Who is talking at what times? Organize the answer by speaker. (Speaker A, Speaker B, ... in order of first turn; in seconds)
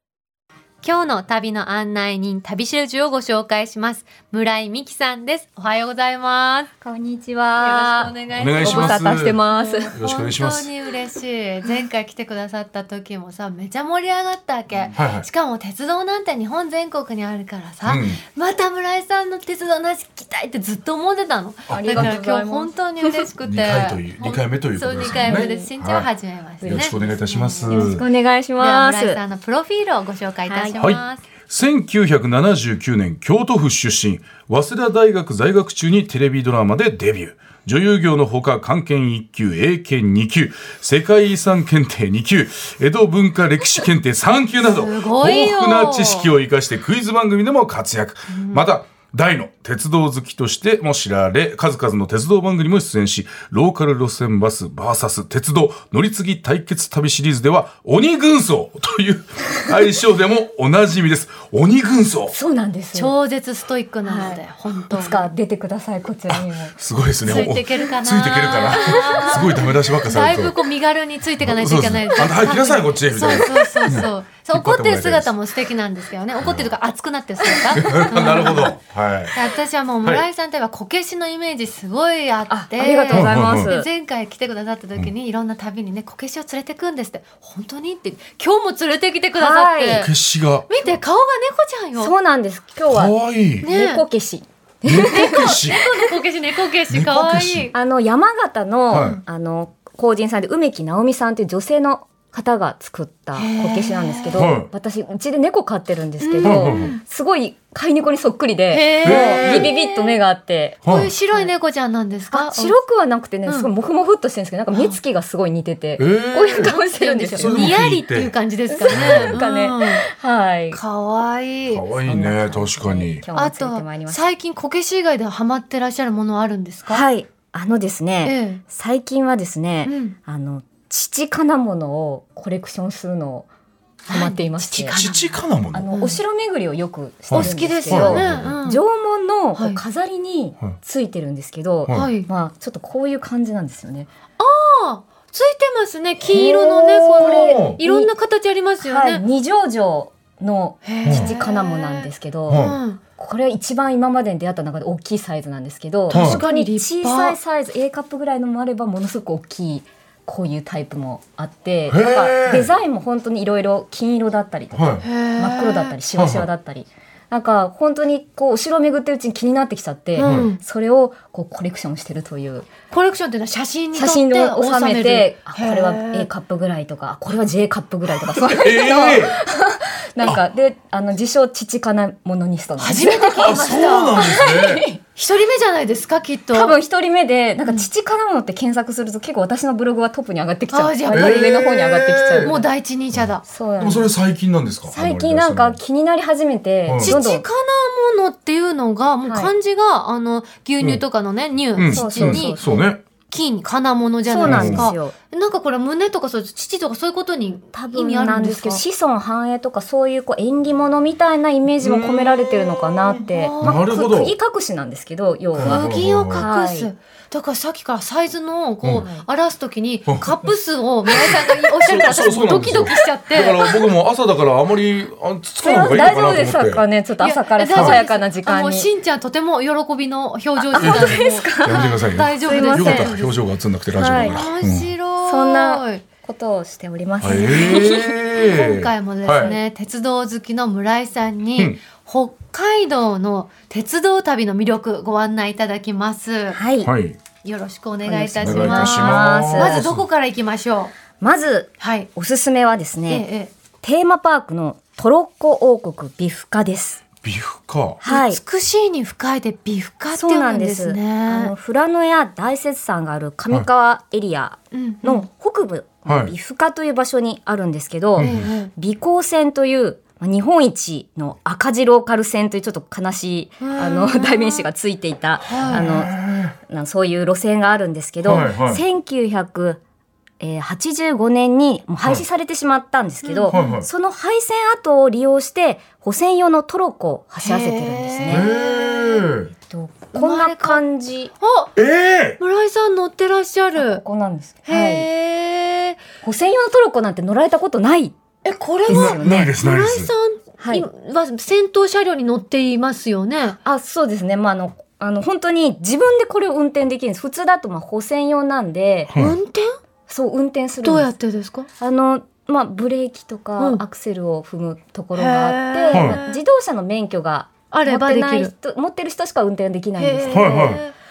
Speaker A: 0.8-6.7, 7.6-28.1, 28.6-31.2, 44.6-46.3, 48.3-48.6, 62.9-65.2, 67.2-78.7, 79.3-90.1, 90.7-92.1, 93.6-94.0, 95.0-97.7, 103.3-104.5, 106.2-107.0, 108.7-110.2, 110.8-112.8, 113.5-113.7, 116.5-120.1, 120.7-121.9, 123.3-127.0, 128.2-128.6, 129.8-130.1, 134.1-135.3, 135.9-136.2, 137.3-138.8, 139.6-139.8, 141.9-142.3, 144.4-149.2, 150.8-153.0, 156.1-157.4, 165.0-165.9, 170.2-170.6, 172.9-176.3, 182.8-184.3, 185.2-186.8, 190.7-191.6, 192.4-193.4, 197.0-208.8, 213.0-213.8, 215.6-223.7, 227.2-233.4, 234.2-236.0, 237.3-246.6, 247.4-250.9, 251.8-252.1, 253.1-253.5, 258.0-261.5, 264.7-265.2, 268.2-268.7, 273.6-274.6, 275.4-275.9, 283.2-283.8, 287.4-289.3, 290.1-290.8, 291.4-291.7, 292.4-294.0, 294.6-296.0, 298.4-303.6, 309.1-309.8, 310.8-311.7, 315.1-316.4, 317.7-318.5, 320.0-320.9
Speaker B: 6.8-9.9, 21.7-23.3, 25.1-25.7, 26.6-29.2, 30.5-30.8, 62.3-63.1, 64.0-66.7, 67.2-67.5, 68.7-69.7, 77.8-78.7, 82.5-83.9, 89.3-90.1, 92.0-95.9, 97.7-111.5, 112.3-117.7, 118.7-120.8, 122.0-124.3, 126.9-133.5, 134.1-135.0, 135.7-144.1, 146.2-148.1, 148.8-172.7, 173.9-185.0, 186.5-192.6, 193.4-194.1, 194.9-197.4, 199.2-199.5, 201.9-202.8, 204.3-205.1, 207.7-216.9, 219.0-219.2, 225.6-228.9, 230.6-233.1, 233.9-234.4, 235.2-238.1, 246.5-246.9, 248.0-249.8, 251.2-253.2, 253.8-257.0, 258.0-258.4, 260.1-279.8, 280.4-288.5, 289.6-291.3, 293.8-295.1, 296.2-298.2, 298.8-299.5, 300.6-300.9, 303.6-309.1, 310.1-311.1, 311.8-320.8
Speaker C: 8.3-9.4, 9.9-10.7, 14.9-15.3, 17.8-18.2, 21.7-22.1, 23.4-26.1, 26.6-28.1, 30.8-62.3, 66.3-70.5, 71.4-75.4, 76.4-76.7, 77.7-79.4, 83.1-83.7, 89.9-90.7, 92.9-93.7, 94.8-95.8, 96.9-97.7, 98.9-99.2, 104.3-104.7, 106.4-106.9, 109.0-109.7, 110.8-111.1, 116.0-116.7, 117.4-118.3, 118.9-119.4, 121.7-123.2, 134.9-135.9, 137.3-138.6, 147.1-147.8, 152.5-152.8, 156.1-156.4, 161.9-162.7, 164.8-165.0, 166.2-166.5, 170.2-170.5, 178.3-179.4, 183.3-184.9, 191.1-193.2, 193.8-195.8, 196.9-197.2, 201.8-203.0, 204.4-204.9, 211.8-212.7, 213.6-214.3, 215.5-216.4, 220.1-220.5, 221.1-226.8, 227.8-228.0, 230.8-234.9, 237.2-239.5, 246.8-247.2, 248.4-250.0, 257.2-258.0, 266.1-266.3, 268.2-268.5, 275.5-276.5, 278.2-278.8, 283.5-283.9, 288.3-289.5, 291.8-292.4, 298.9-300.1, 315.9-316.2, 320.3-320.8